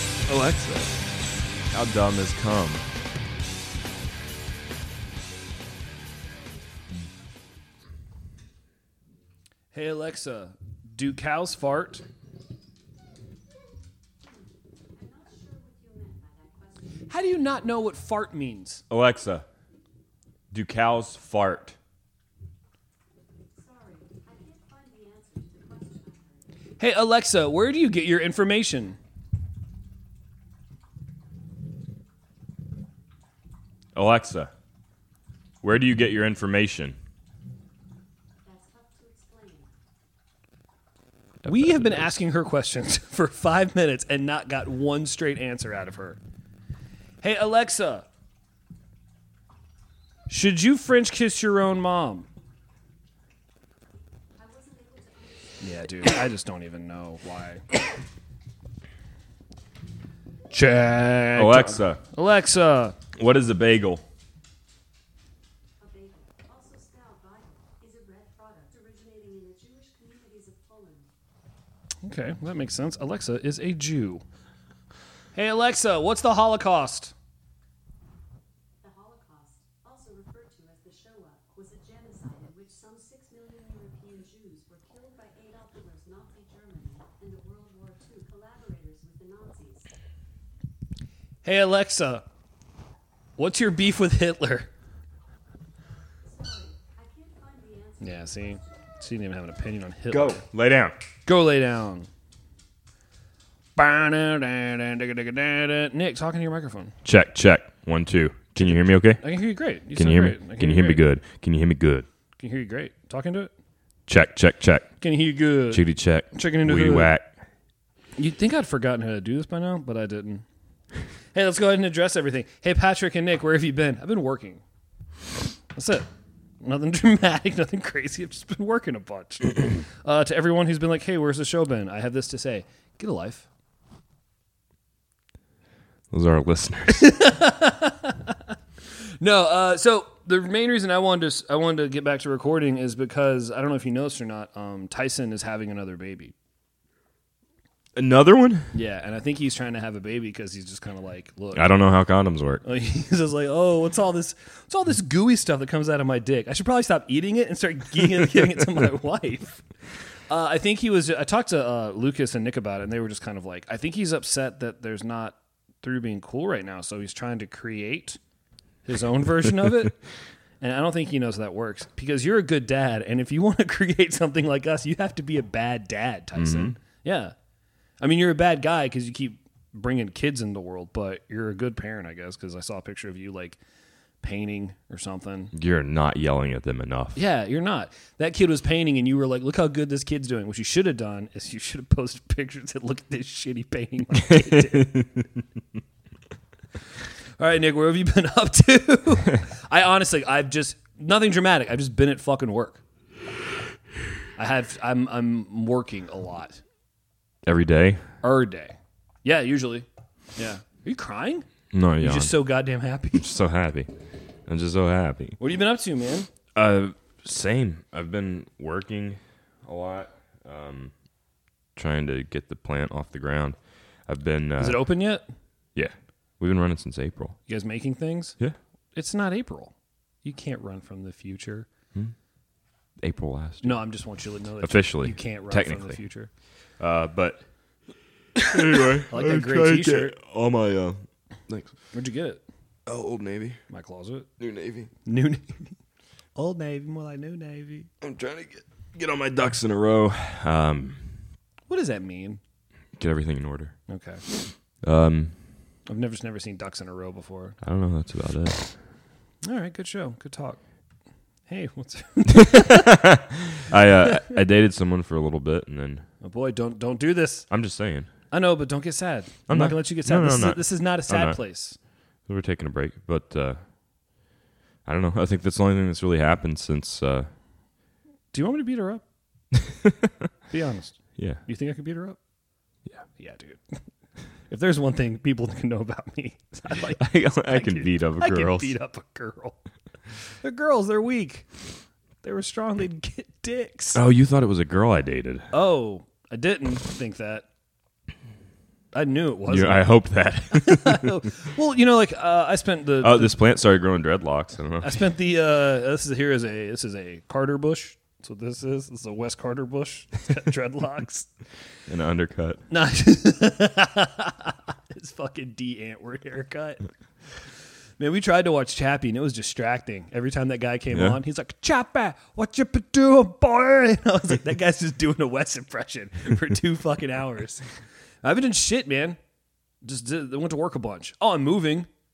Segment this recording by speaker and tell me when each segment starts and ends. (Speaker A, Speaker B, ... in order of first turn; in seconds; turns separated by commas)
Speaker A: 0.3-0.9, Speaker B: 1.7-2.8, Speaker C: 5.3-7.1, Speaker A: 9.7-12.0, Speaker C: 14.2-17.6, Speaker A: 17.1-18.8, Speaker B: 18.9-19.4, Speaker B: 20.5-21.8, Speaker C: 23.6-26.5, Speaker A: 26.8-29.0, Speaker B: 33.9-34.5, Speaker B: 35.6-37.0, Speaker C: 38.4-39.7, Speaker B: 41.4-42.1, Speaker A: 41.5-46.2, Speaker A: 47.2-48.0, Speaker A: 50.3-52.3, Speaker C: 54.4-56.2, Speaker A: 55.6-57.6, Speaker A: 60.5-63.0, Speaker B: 61.4-62.0, Speaker B: 63.1-64.0, Speaker C: 65.8-71.1, Speaker A: 72.0-74.2, Speaker A: 75.3-77.1, Speaker C: 78.8-89.9, Speaker A: 91.4-92.2, Speaker A: 93.4-94.7, Speaker C: 96.2-99.1, Speaker A: 98.0-100.4, Speaker B: 100.1-100.9, Speaker A: 101.2-102.1, Speaker A: 103.8-106.9, Speaker B: 107.0-109.2, Speaker A: 108.6-111.0, Speaker B: 109.9-112.0, Speaker A: 112.4-113.5, Speaker B: 114.1-114.9, Speaker A: 115.0-117.1, Speaker B: 115.7-117.3, Speaker A: 118.2-120.4, Speaker A: 121.3-124.6, Speaker A: 125.7-126.0, Speaker A: 126.6-133.4, Speaker B: 136.1-137.1, Speaker A: 136.9-138.3, Speaker A: 139.2-146.3, Speaker B: 147.9-148.7, Speaker A: 148.7-151.8, Speaker B: 151.5-152.6, Speaker A: 152.6-159.6, Speaker A: 160.3-168.2, Speaker A: 168.8-170.0, Speaker A: 170.6-177.3, Speaker B: 176.3-176.7, Speaker A: 178.0-183.6, Speaker A: 184.2-185.5, Speaker B: 185.5-187.2, Speaker A: 187.1-195.1, Speaker B: 194.2-195.2, Speaker A: 197.4-202.8, Speaker A: 204.3-206.6, Speaker B: 207.4-208.0, Speaker A: 208.2-211.5, Speaker B: 211.7-212.3, Speaker A: 212.0-213.2, Speaker B: 213.1-213.9, Speaker B: 214.5-215.4, Speaker A: 215.4-216.3, Speaker B: 216.5-220.9, Speaker B: 221.8-224.8, Speaker A: 224.6-225.2, Speaker B: 225.7-227.4, Speaker A: 227.5-228.4, Speaker A: 228.9-231.7, Speaker B: 233.0-233.8, Speaker A: 233.6-236.3, Speaker B: 234.6-236.0, Speaker B: 236.8-237.4, Speaker B: 238.3-241.7, Speaker A: 239.1-240.1, Speaker A: 241.9-242.4, Speaker B: 242.8-243.6, Speaker A: 243.7-244.3, Speaker B: 244.4-244.9, Speaker A: 245.0-245.8, Speaker A: 246.3-247.9, Speaker B: 248.0-251.1, Speaker A: 251.7-252.4, Speaker B: 253.0-253.7, Speaker A: 253.9-254.2, Speaker B: 254.8-255.3, Speaker A: 255.9-257.6, Speaker B: 257.6-258.7, Speaker A: 259.4-260.6, Speaker A: 261.5-263.0, Speaker B: 262.3-266.0, Speaker A: 266.2-267.5, Speaker B: 267.5-268.1, Speaker A: 268.3-271.8, Speaker B: 269.5-271.4, Speaker B: 272.2-273.6, Speaker B: 274.8-277.3, Speaker A: 278.3-279.0, Speaker B: 279.7-280.1, Speaker A: 280.5-282.2, Speaker A: 283.1-283.8, Speaker A: 284.5-289.6, Speaker B: 287.0-288.7, Speaker A: 290.4-291.5, Speaker A: 292.2-294.0, Speaker B: 293.9-295.5, Speaker A: 295.5-297.4, Speaker A: 298.9-299.9, Speaker B: 299.5-301.2, Speaker A: 300.5-303.4, Speaker B: 303.0-305.0, Speaker A: 304.8-311.3, Speaker B: 311.9-312.6, Speaker A: 312.7-316.9, Speaker A: 318.0-327.6, Speaker B: 320.9-321.2, Speaker A: 328.2-329.2, Speaker A: 329.8-331.9